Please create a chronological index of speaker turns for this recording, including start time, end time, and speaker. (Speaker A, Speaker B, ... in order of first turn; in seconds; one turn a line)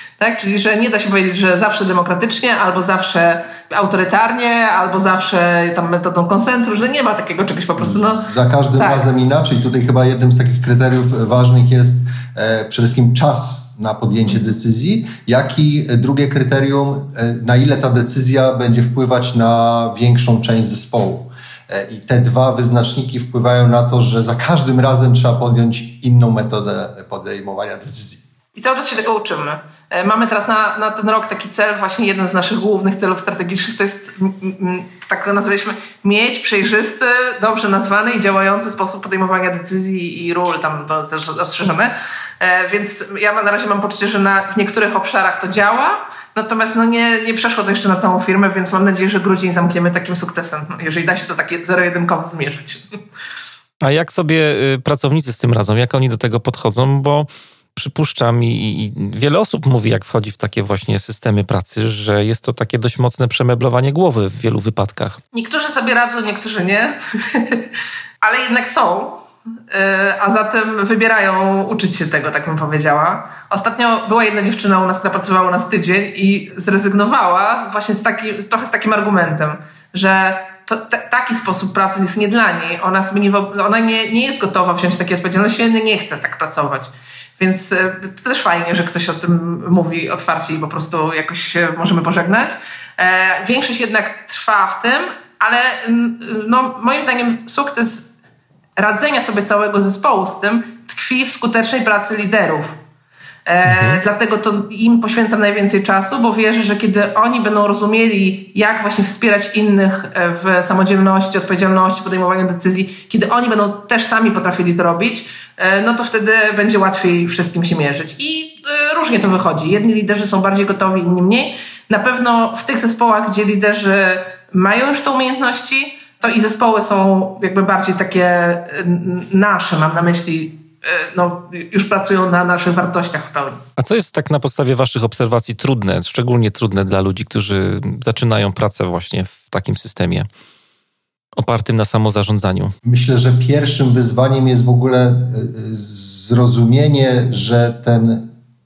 Speaker A: 0.2-9.1
Speaker B: 7.8-28.2
Speaker A: 28.5-53.0
Speaker C: 53.8-65.2
Speaker A: 65.3-98.1
Speaker A: 98.8-102.8
Speaker A: 103.5-133.6
Speaker C: 103.6-104.0
Speaker C: 133.8-140.3
Speaker C: 141.4-142.7
Speaker B: 142.8-148.3